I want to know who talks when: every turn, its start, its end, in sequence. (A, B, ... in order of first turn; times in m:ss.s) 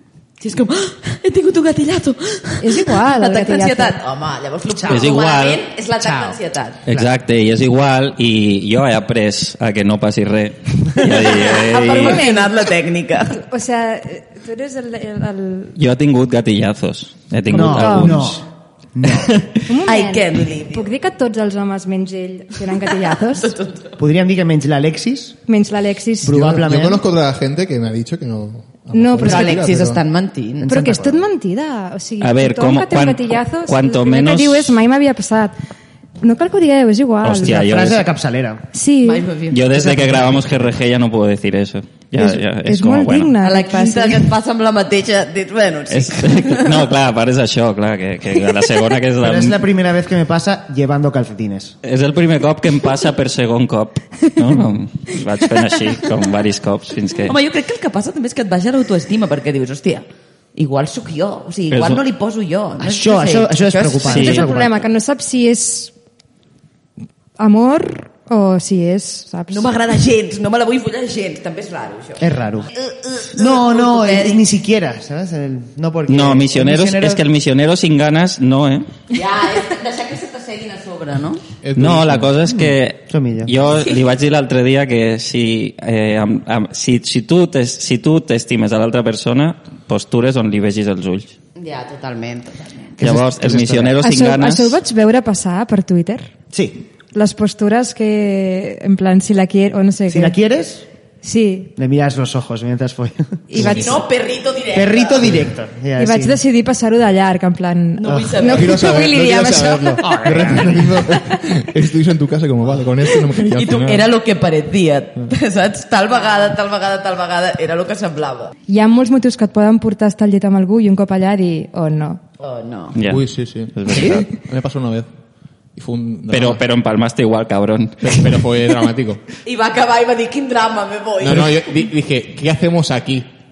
0:00.4-0:06.9 A
0:02.6-0:04.0 B
0:04.7-0:05.2 C
0:04.9-0:05.6 D
0:06.0-0:06.4 C
0:06.9-0:12.2 D
0:11.0-0:13.4 A
0:12.0-0:12.5 B
0:13.3-0:15.8 B
0:15.8-0:18.4 D
0:17.5-0:18.3 B
0:17.5-0:19.4 C
0:19.7-0:23.6 B
0:19.8-0:20.9 A
0:23.3-0:24.0 A
0:24.0-0:25.4 C
0:25.5-0:26.4 B
0:26.2-0:27.0 C
0:26.3-0:30.0 E
0:28.9-0:29.6 B
0:29.2-0:30.8 A
0:30.6-0:31.2 C
0:30.7-0:35.6 B
0:32.2-0:34.8 D
0:36.2-0:37.6 B
0:37.2-0:38.1 D
0:37.4-0:38.6 C
0:38.7-0:39.3 B
0:39.0-0:39.6 A
0:39.5-0:43.4 D
0:39.7-0:40.7 C
0:42.2-0:44.3 B
0:43.4-0:46.9 A
0:45.9-0:49.6 D
0:49.2-0:51.8 C
0:51.8-0:57.4 D
0:57.3-1:04.5 A
1:01.7-1:02.0 D
1:02.8-1:04.8 C
1:04.1-1:04.5 D
1:04.2-1:05.9 B
1:07.4-1:09.7 B
1:09.5-1:14.4 A
1:12.2-1:12.7 C
1:13.3-1:17.2 C
1:16.1-1:18.9 D
1:19.1-1:21.4 A
1:21.6-1:22.4 E
1:21.8-1:31.4 D
1:22.5-1:23.6 C
1:31.6-1:33.0 A
1:33.0-1:34.0 C
1:33.0-1:34.8 D
1:34.0-1:36.3 B
1:36.5-1:36.8 C
1:37.1-1:40.4 B
1:40.1-1:40.9 C
1:41.2-1:41.7 B
1:41.8-1:44.0 C
1:43.5-1:44.0 B
1:43.6-1:45.4 A
1:44.7-1:46.4 C
1:46.0-1:50.2 B
1:48.0-1:48.8 A
1:48.2-1:54.1 E
1:50.0-1:51.0 C
1:53.2-1:58.5 A
1:58.7-2:02.2 B
2:02.4-2:03.0 A
2:03.0-2:04.3 D
2:03.0-2:05.1 E
2:05.8-2:06.6 E
2:06.3-2:08.4 D
2:08.0-2:09.2 E
2:09.4-2:11.7 A
2:11.2-2:13.3 E